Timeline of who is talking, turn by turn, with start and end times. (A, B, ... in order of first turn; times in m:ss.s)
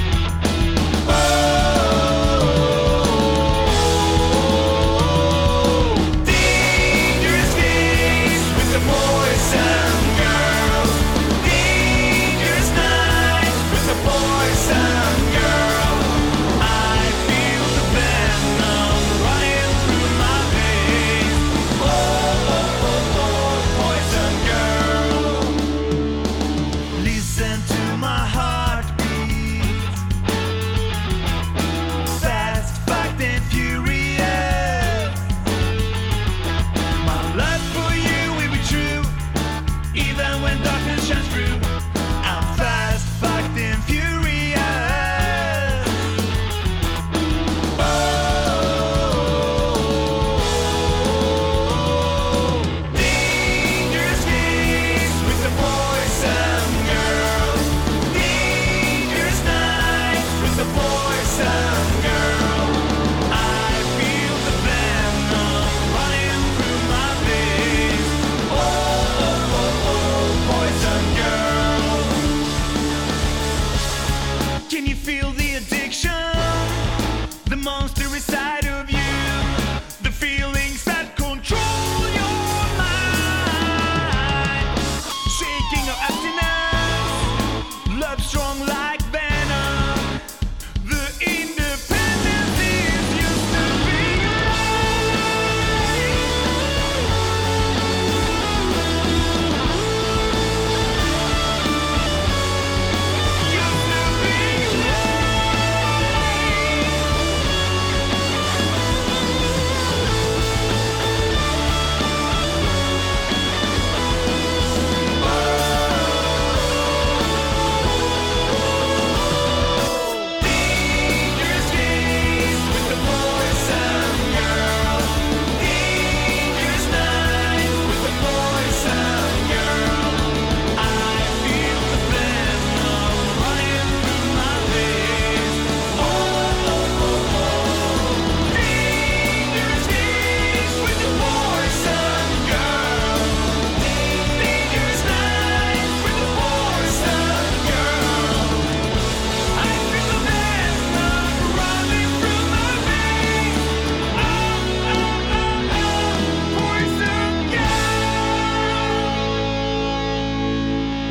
0:01.4-0:02.2 A
0:05.9-0:25.6 A
0:26.9-0:30.0 A
0:32.1-0:35.2 A
0:37.0-0:39.2 A
0:39.9-0:45.9 A
0:48.1-0:49.2 A
0:52.7-1:12.3 A
1:14.7-1:16.8 A
1:17.4-1:24.7 A
1:25.3-1:30.2 A
1:30.8-1:35.3 A
1:43.5-1:45.0 A
2:00.2-2:28.7 A
2:29.6-2:35.2 A
2:36.2-2:38.1 A